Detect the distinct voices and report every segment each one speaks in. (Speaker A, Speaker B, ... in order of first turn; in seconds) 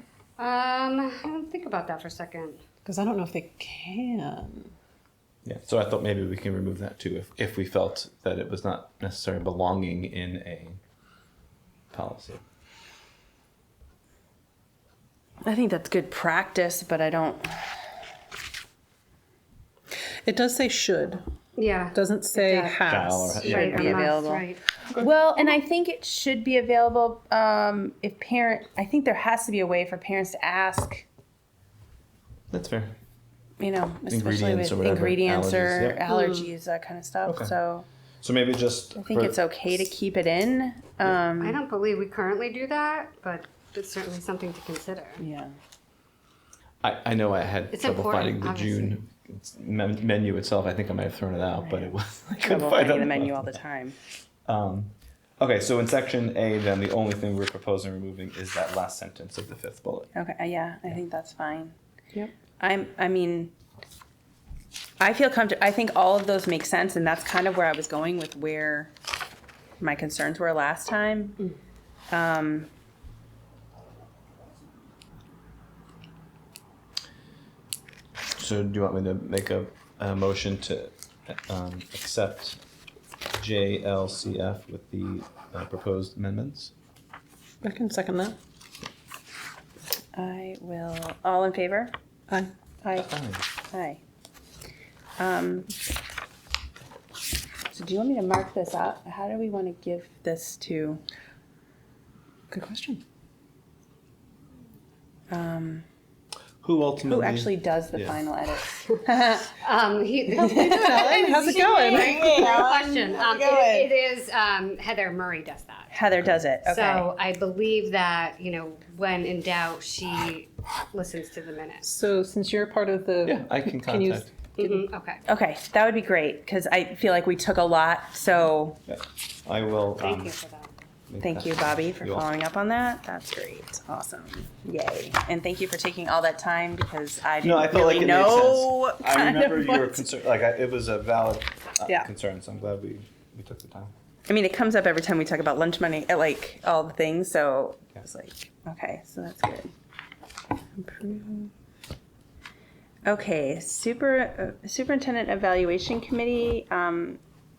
Speaker A: 0.4-2.6, 21.6-22.8, 23.3-24.6, 36.1-36.5, 41.4-45.2, 47.7-49.0, 109.6-115.9, 116.7-121.8, 124.6-125.2, 130.0-130.7
Speaker B: 2.8-4.7, 20.2-21.2, 21.9-23.6, 87.6-88.4, 102.5-103.0, 110.5-113.8, 121.8-124.8
Speaker C: 5.4-10.8, 11.9-12.4, 22.9-24.0, 32.5-33.0, 34.1-36.0, 37.2-37.5, 38.2-39.9, 46.8-53.6, 54.5-60.1, 78.3-82.6, 83.3-86.7, 92.9-93.5, 106.6-108.2, 123.2-124.3, 128.9-130.3, 131.1-132.2, 137.4-143.9
Speaker D: 15.4-17.7, 23.4-31.0, 33.6-37.8, 39.0-41.6, 45.2-45.5, 51.6-54.0, 60.1-61.7, 62.6-63.5, 65.0-68.9, 69.8-71.5, 72.1-72.7, 90.1-91.9, 92.8-93.1, 93.7-94.0, 95.2-95.7, 97.7-101.0, 105.3-105.8, 107.0-109.5, 111.0-111.3, 112.1-112.6, 115.9-117.1, 125.2-128.8, 131.2-140.0, 144.3-149.7, 150.8-151.5, 153.0-157.2